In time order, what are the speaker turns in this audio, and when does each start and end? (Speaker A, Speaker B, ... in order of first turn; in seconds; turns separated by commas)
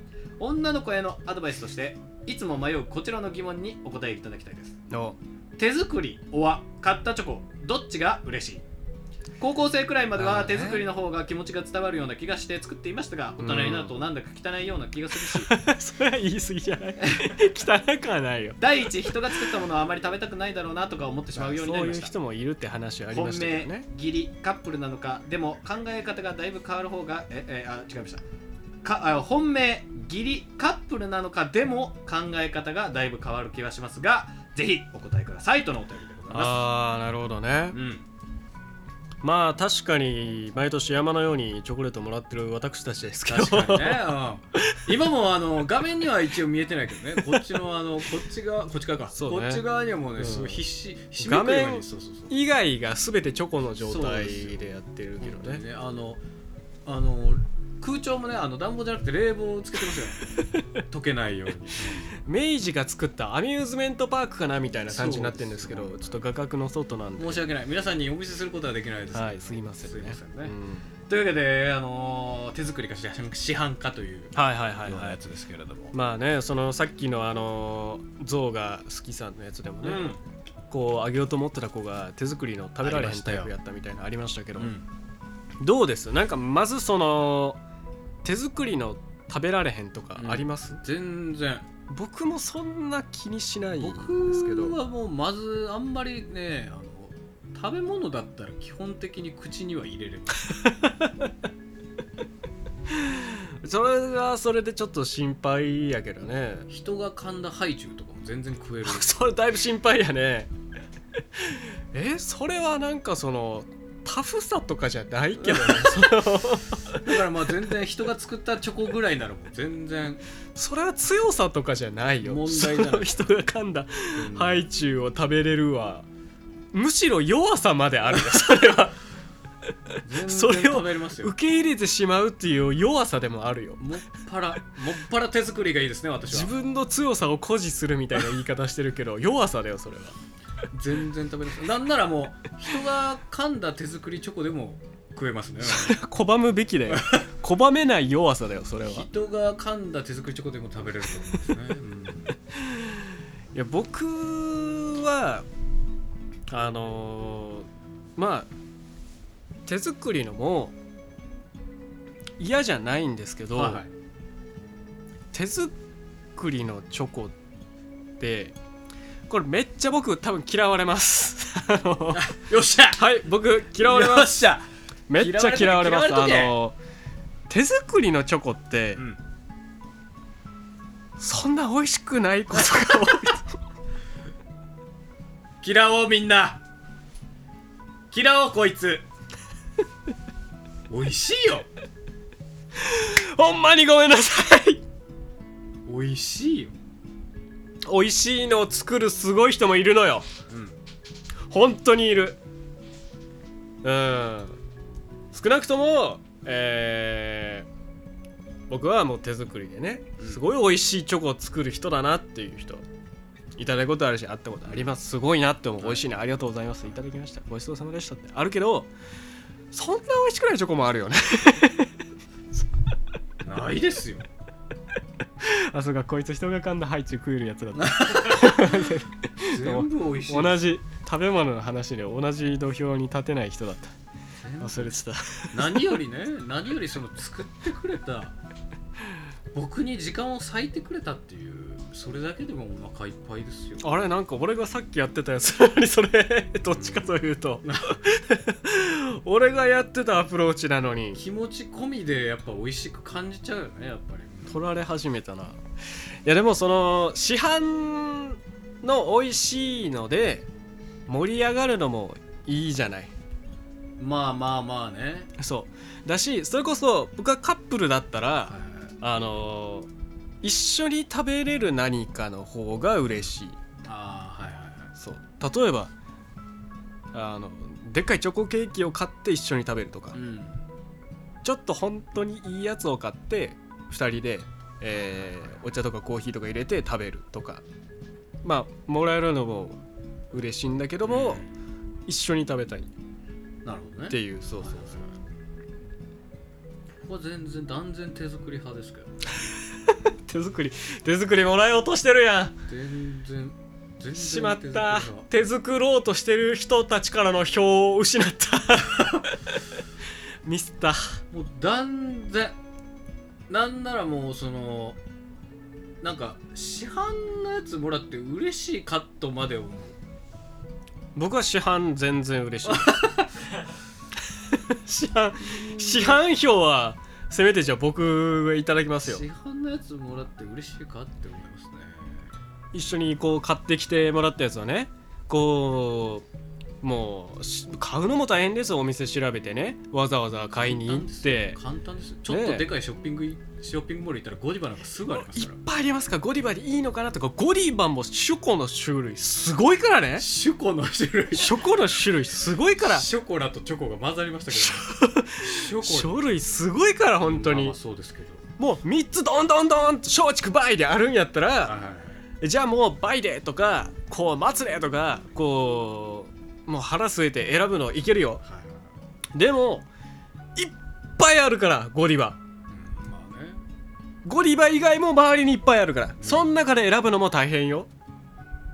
Speaker A: 0.4-4.8, Speaker B: 4.9-5.2, Speaker A: 5.6-8.6, Speaker A: 9.4-15.5, Speaker B: 10.2-10.9, Speaker B: 13.4-13.9, Speaker B: 15.3-19.4, Speaker A: 17.0-17.4, Speaker A: 18.6-22.1, Speaker B: 21.4-23.9, Speaker A: 23.1-28.2, Speaker A: 28.8-36.6, Speaker B: 36.3-37.8, Speaker A: 37.7-38.0, Speaker B: 39.2-44.1, Speaker A: 43.3-52.3, Speaker B: 49.1-50.6, Speaker B: 51.2-55.6, Speaker A: 53.8-54.6, Speaker A: 55.2-56.2, Speaker A: 56.9-62.1, Speaker B: 62.2-67.5, Speaker A: 64.9-66.2, Speaker A: 67.2-70.5, Speaker B: 69.1-70.9, Speaker A: 71.1-75.9, Speaker B: 74.3-75.2, Speaker B: 75.9-80.2, Speaker A: 79.8-80.2, Speaker B: 80.7-84.7, Speaker A: 82.8-83.5, Speaker A: 84.6-84.8, Speaker B: 85.6-87.6, Speaker B: 88.2-90.8, Speaker A: 90.2-91.7, Speaker B: 91.9-94.8, Speaker A: 93.8-100.5, Speaker B: 100.5-101.3, Speaker B: 102.9-106.7, Speaker A: 106.7-109.3, Speaker B: 108.8-110.5, Speaker B: 111.4-117.1, Speaker A: 115.4-116.3, Speaker A: 116.9-120.2, Speaker B: 120.5-126.1, Speaker A: 122.2-123.4, Speaker A: 124.2-124.7, Speaker B: 126.7-129.0, Speaker A: 130.0-131.3, Speaker B: 130.2-133.8, Speaker A: 133.8-136.5, Speaker B: 136.3-140.2, Speaker A: 140.7-146.0, Speaker B: 145.6-149.1, Speaker A: 146.9-147.2, Speaker A: 148.8-152.3, Speaker B: 153.5-155.5, Speaker B: 156.5-158.5, Speaker B: 159.7-160.8, Speaker B: 162.4-163.8, Speaker A: 163.5-163.9, Speaker B: 165.3-165.8, Speaker B: 166.4-167.3, Speaker B: 168.2-168.6, Speaker B: 169.3-172.3, Speaker A: 172.1-173.1, Speaker B: 173.0-174.4, Speaker A: 173.7-176.6, Speaker B: 175.1-176.8, Speaker B: 177.5-179.1, Speaker B: 181.2-183.6, Speaker A: 182.6-183.3, Speaker A: 185.6-186.6, Speaker A: 188.1-189.1, Speaker A: 190.9-191.7, Speaker B: 192.8-194.8, Speaker A: 195.9-196.7, Speaker B: 197.8-200.3, Speaker A: 200.5-200.8, Speaker B: 201.5-202.4, Speaker B: 203.8-204.6, Speaker B: 205.3-207.7, Speaker B: 208.7-212.8, Speaker B: 213.6-218.9, Speaker A: 214.7-214.9, Speaker A: 215.8-216.1, Speaker B: 219.7-221.9, Speaker A: 223.4-224.3, Speaker B: 225.4-233.9, Speaker A: 227.8-228.9, Speaker A: 229.4-230.7, Speaker A: 234.4-235.0, Speaker B: 234.6-235.9, Speaker A: 235.5-238.4, Speaker A: 239.5-244.0, Speaker B: 243.8-251.2, Speaker A: 246.7-248.0, Speaker A: 251.1-254.7, Speaker B: 254.5-255.6, Speaker B: 256.2-260.5, Speaker B: 261.1-263.1, Speaker A: 264.0-265.3, Speaker B: 265.4-269.9, Speaker A: 268.5-268.9, Speaker B: 270.4-273.6, Speaker A: 273.8-274.9, Speaker B: 275.0-275.9, Speaker B: 277.1-280.2, Speaker A: 280.1-280.6, Speaker B: 281.4-287.6, Speaker A: 284.9-285.6, Speaker B: 288.4-289.8, Speaker B: 290.3-291.4, Speaker A: 291.0-291.5, Speaker B: 292.1-292.9, Speaker A: 293.6-295.1, Speaker B: 294.1-295.0, Speaker A: 297.0-299.5, Speaker B: 299.9-302.6, Speaker A: 302.7-305.3, Speaker B: 304.1-309.3, Speaker B: 310.4-311.2, Speaker A: 311.3-312.6, Speaker A: 313.5-315.0, Speaker A: 316.0-320.0, Speaker B: 321.1-323.0, Speaker A: 322.6-323.3, Speaker B: 324.5-329.2, Speaker A: 325.6-326.2, Speaker A: 329.0-332.3, Speaker B: 332.7-336.3, Speaker B: 336.8-341.6, Speaker A: 340.5-345.6, Speaker B: 342.3-342.7, Speaker B: 345.1-350.3, Speaker A: 350.2-351.6, Speaker B: 351.3-353.1, Speaker A: 352.8-356.2, Speaker B: 354.5-357.8, Speaker A: 357.2-358.4, Speaker B: 358.6-361.8, Speaker A: 361.6-362.2, Speaker B: 362.4-368.4, Speaker A: 368.4-368.9, Speaker B: 369.3-369.9, Speaker B: 370.6-372.4, Speaker A: 372.7-373.6, Speaker B: 374.2-377.9, Speaker A: 376.2-376.5